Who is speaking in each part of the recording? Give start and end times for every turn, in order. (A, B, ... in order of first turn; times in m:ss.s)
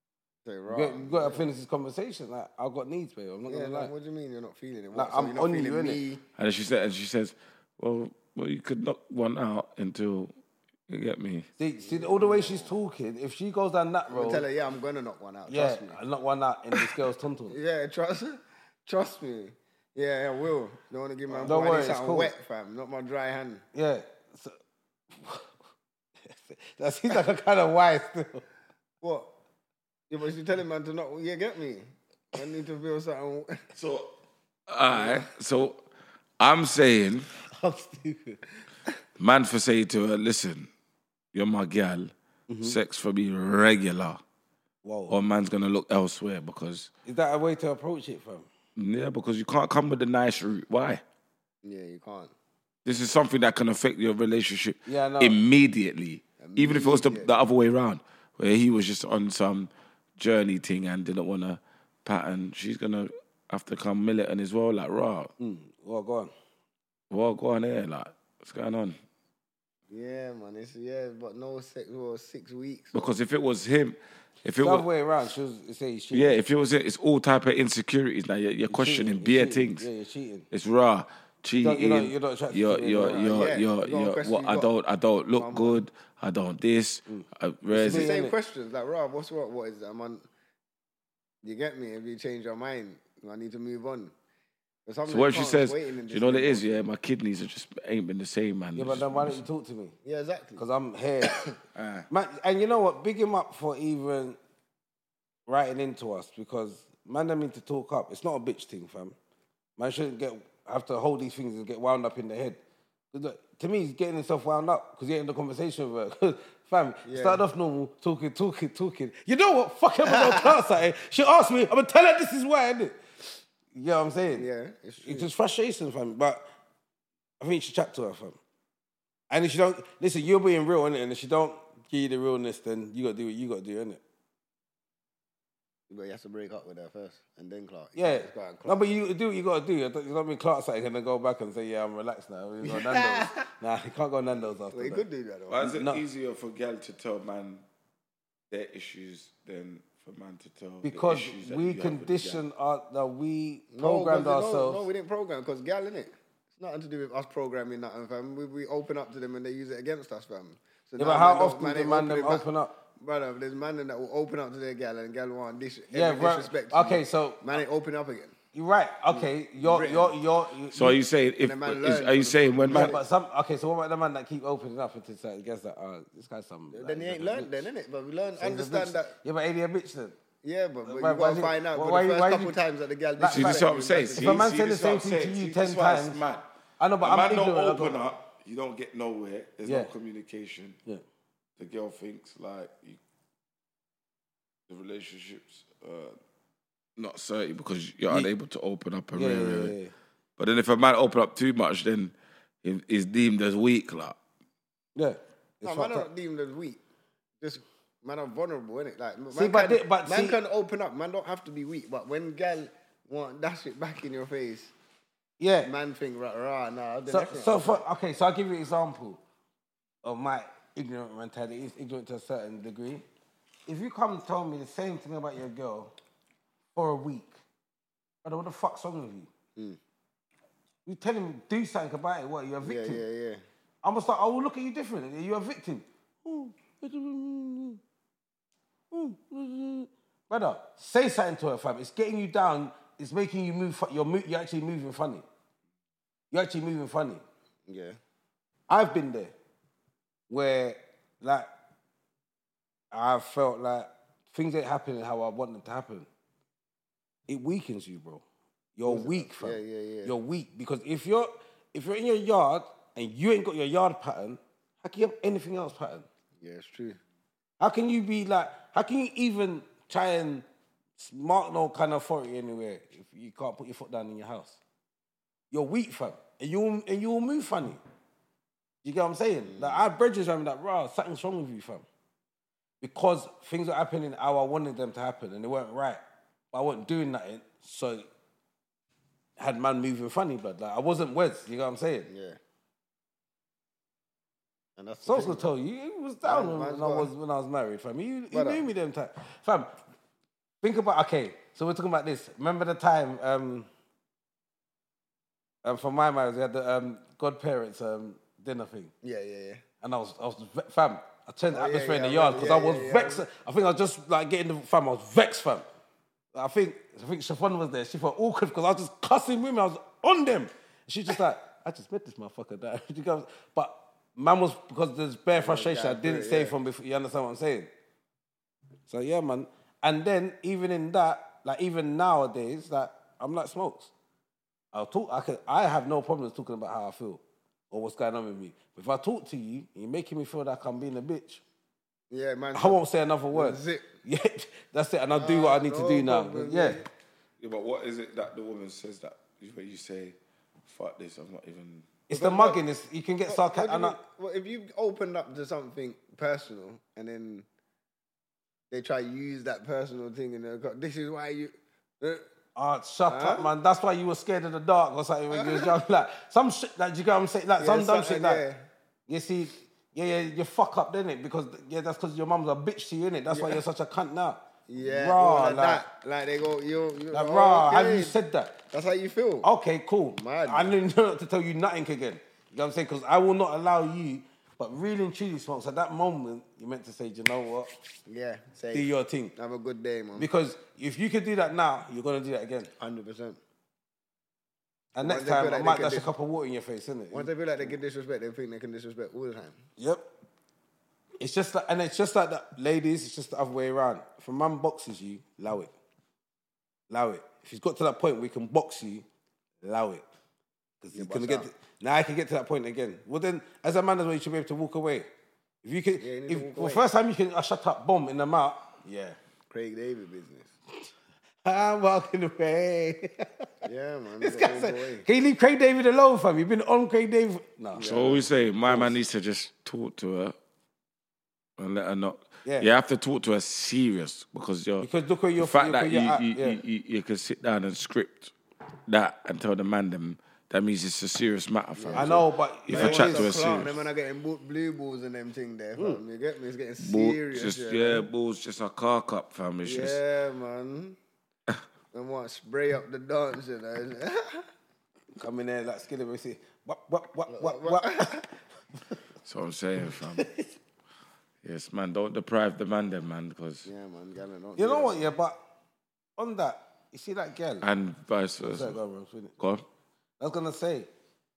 0:00.4-0:01.4 A
0:00.7-0:03.9 B
0:03.5-0:06.2 A
0:04.9-0:06.0 B
0:06.4-0:10.3 C
0:10.9-0:11.5 C
0:11.6-0:14.4 B
0:11.8-0:12.7 A
0:14.1-0:16.0 A
0:15.5-0:17.6 B
0:17.5-0:23.6 A
0:21.4-0:22.3 B
0:23.7-0:24.6 B
0:25.1-0:25.5 B
0:26.3-0:28.4 B
0:29.0-0:29.3 A
0:30.1-0:33.6 A
0:33.8-0:34.1 C
0:34.7-0:35.8 C
0:36.4-0:37.3 C
0:37.5-0:38.4 B
0:39.2-0:40.7 C
0:41.3-0:44.2 C
0:42.5-0:42.8 B
0:44.8-0:45.2 B
0:45.1-0:46.9 C
0:47.1-0:48.5 B
0:48.8-0:51.0 C
0:51.6-0:52.3 A
0:52.8-1:05.3 C
0:54.9-0:55.4 B
0:56.4-0:57.3 A
1:05.4-1:06.3 B
1:07.1-1:09.0 C
1:09.9-1:13.1 A
1:12.9-1:14.9 C
1:14.6-1:16.4 B
1:16.1-1:19.9 C
1:18.7-1:20.5 B
1:20.5-1:28.1 C
1:21.6-1:23.5 B
1:23.2-1:24.7 A
1:25.4-1:25.8 A
1:27.1-1:28.4 B
1:27.8-1:30.2 A
1:31.4-1:34.1 A
1:34.9-1:36.8 A
1:35.1-1:39.4 C
1:38.8-1:40.0 B
1:40.0-1:40.6 A
1:40.6-1:41.4 B
1:41.2-1:41.6 A
1:41.8-1:42.1 C
1:42.1-1:44.4 B
1:45.5-1:49.2 B
1:49.8-1:52.6 B
1:53.1-2:03.0 B
1:57.0-1:57.4 A
2:00.1-2:00.5 A
2:03.7-2:04.5 B
2:04.4-2:05.3 A
2:05.0-2:06.4 B
2:07.4-2:08.4 B
2:09.3-2:14.0 B
2:15.9-2:18.8 A
2:18.0-2:25.0 B
2:22.6-2:23.4 A
2:24.7-2:25.6 A
2:25.5-2:27.6 C
2:25.6-2:26.0 B
2:28.5-2:32.4 C
2:30.8-2:34.8 B
2:33.7-2:42.5 A
2:41.0-2:42.8 B
2:43.0-2:48.4 A
2:45.9-2:47.4 B
2:48.5-2:51.0 B
2:49.1-2:50.2 A
2:50.7-2:53.0 C
2:51.4-2:53.0 A
2:52.7-2:57.6 B
2:56.7-2:59.1 A
2:58.4-3:00.2 B
3:00.4-3:04.5 A
3:00.9-3:02.6 B
3:03.2-3:06.2 B
3:03.3-3:06.4 C
3:06.8-3:08.0 B
3:07.0-3:10.8 C
3:09.6-3:09.9 B
3:11.6-3:13.0 C
3:14.7-3:16.2 C
3:17.0-3:19.8 C
3:19.1-3:19.9 B
3:20.4-3:24.2 C
3:25.0-3:26.1 B
3:25.6-3:26.8 A
3:27.4-3:34.7 A
3:29.3-3:30.4 B
3:35.4-3:35.7 B
3:35.6-3:37.8 A
3:37.1-3:39.2 B
3:40.0-3:43.0 B
3:43.7-3:45.9 B
3:46.8-3:47.4 B
3:48.2-3:49.3 B
3:50.9-3:53.0 B
3:52.6-3:53.4 A
3:53.8-3:57.8 B
3:58.9-4:05.2 B
4:06.3-4:07.2 B
4:07.7-4:08.0 A
4:08.7-4:09.3 B
4:10.3-4:11.5 B
4:12.9-4:16.1 B
4:17.3-4:18.2 B
4:18.8-4:26.1 B
4:18.9-4:20.1 A
4:26.4-4:27.0 A
4:27.6-4:30.4 B
4:31.0-4:34.6 B
4:35.5-4:37.8 B
4:38.8-4:41.8 B
4:39.5-4:39.9 A
4:42.8-4:46.0 B
4:46.5-4:48.1 B
4:49.4-4:52.1 B
4:52.1-4:52.4 A
4:54.8-4:55.5 A
4:55.0-4:59.7 B
4:56.2-4:57.1 A
4:58.3-4:58.6 A
5:00.6-5:03.7 B
5:05.6-5:08.9 B
5:09.0-5:09.6 A
5:09.8-5:15.6 B
5:11.5-5:13.3 A
5:16.3-5:27.7 B
5:25.3-5:26.5 A
5:28.9-5:33.9 B
5:34.7-5:41.4 B
5:42.1-5:42.8 A
5:42.5-5:46.8 B
5:43.3-5:43.9 A
5:45.2-5:46.9 A
5:47.4-5:51.9 C
5:52.1-5:54.0 B
5:52.1-5:52.6 A
5:53.3-5:57.5 A
5:58.7-6:02.3 A
6:02.6-6:08.4 B
6:03.1-6:03.5 A
6:05.3-6:05.7 A
6:07.6-6:08.6 A
6:09.1-6:15.8 B
6:13.3-6:13.6 A
6:14.7-6:18.2 A
6:17.1-6:18.6 B
6:18.7-6:19.5 A
6:19.4-6:27.7 B
6:20.1-6:20.7 A
6:28.1-6:30.3 A
6:28.7-6:29.3 B
6:30.2-6:32.7 B
6:32.8-6:33.4 A
6:35.0-6:37.3 B
6:35.0-6:36.1 A
6:37.1-6:39.6 A
6:39.8-6:40.1 B
6:41.2-6:45.7 B
6:46.9-6:49.0 B
6:49.6-6:50.1 B
6:50.8-6:55.1 B
6:50.9-6:51.5 A
6:55.6-6:59.2 B
6:56.0-6:56.8 A
6:59.5-7:00.5 A
7:01.4-7:03.6 B
7:03.6-7:05.1 A
7:04.2-7:07.9 B
7:07.7-7:08.2 A
7:07.8-7:10.4 C
7:08.7-7:08.9 B
7:11.6-7:18.3 C
7:12.4-7:12.7 B
7:14.8-7:16.6 B
7:18.9-7:23.7 C
7:21.8-7:28.1 A
7:21.9-7:23.4 B
7:26.8-7:30.0 C
7:29.6-7:31.0 A
7:31.9-7:34.5 A
7:35.2-7:38.2 B
7:37.3-7:38.3 A
7:39.2-7:40.3 C
7:40.1-7:40.5 B
7:41.4-7:43.7 C
7:43.6-7:45.1 A
7:44.6-7:45.4 B
7:46.2-7:47.7 B
7:47.6-7:48.8 C
7:48.4-7:49.3 B
7:49.4-7:49.6 C
7:50.2-7:50.9 B